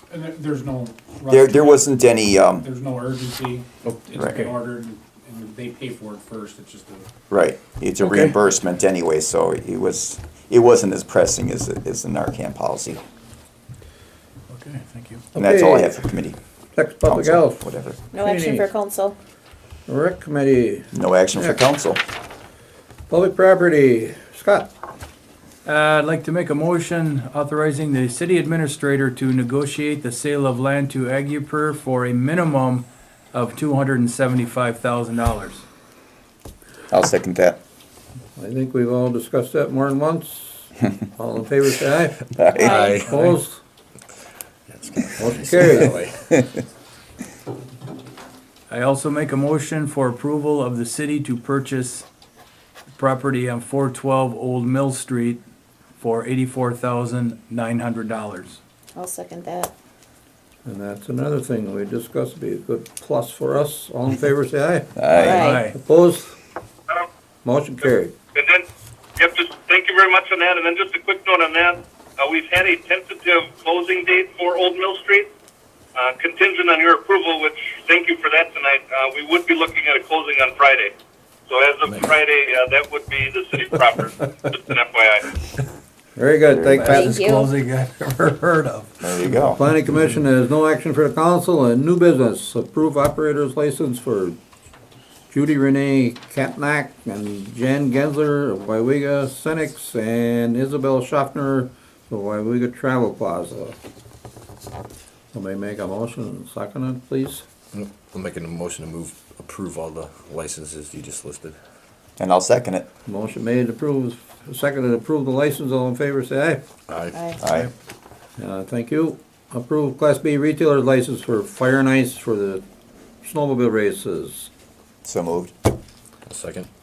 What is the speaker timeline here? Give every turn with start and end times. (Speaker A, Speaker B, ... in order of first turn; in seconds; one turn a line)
Speaker A: 0.1-2.0
Speaker B: 1.3-2.7
Speaker A: 2.6-7.1
Speaker C: 3.9-4.5
Speaker B: 4.2-4.4
Speaker B: 7.3-13.0
Speaker C: 8.0-8.3
Speaker C: 14.6-15.2
Speaker A: 14.6-15.1
Speaker D: 15.3-16.0
Speaker B: 15.4-16.4
Speaker D: 16.8-18.7
Speaker B: 17.1-18.0
Speaker E: 18.1-19.2
Speaker D: 19.9-21.6
Speaker B: 20.9-22.0
Speaker D: 23.1-24.7
Speaker C: 25.6-35.6
Speaker B: 36.9-37.6
Speaker D: 38.4-42.2
Speaker B: 42.4-42.9
Speaker E: 42.5-43.0
Speaker F: 42.6-43.1
Speaker D: 42.9-43.6
Speaker C: 43.1-43.4
Speaker F: 44.7-46.4
Speaker D: 45.2-46.0
Speaker C: 48.7-52.1
Speaker C: 53.0-55.4
Speaker C: 56.0-58.6
Speaker E: 59.0-59.7
Speaker D: 60.7-66.4
Speaker B: 65.0-65.4
Speaker E: 65.1-65.7
Speaker C: 65.3-65.8
Speaker D: 67.4-68.1
Speaker G: 68.3-68.6
Speaker G: 69.2-75.3
Speaker G: 76.0-80.9
Speaker G: 81.5-85.3
Speaker F: 81.9-82.1
Speaker D: 86.2-87.2
Speaker C: 86.7-89.0
Speaker E: 86.9-87.5
Speaker B: 89.0-89.6
Speaker D: 89.5-94.4
Speaker D: 95.3-103.8
Speaker D: 105.3-107.5
Speaker F: 107.7-111.6
Speaker B: 112.2-112.9
Speaker D: 113.1-116.6
Speaker F: 116.9-117.7
Speaker B: 117.4-117.7
Speaker D: 118.4-122.6
Speaker D: 123.2-124.5
Speaker B: 125.0-125.5
Speaker F: 126.3-126.7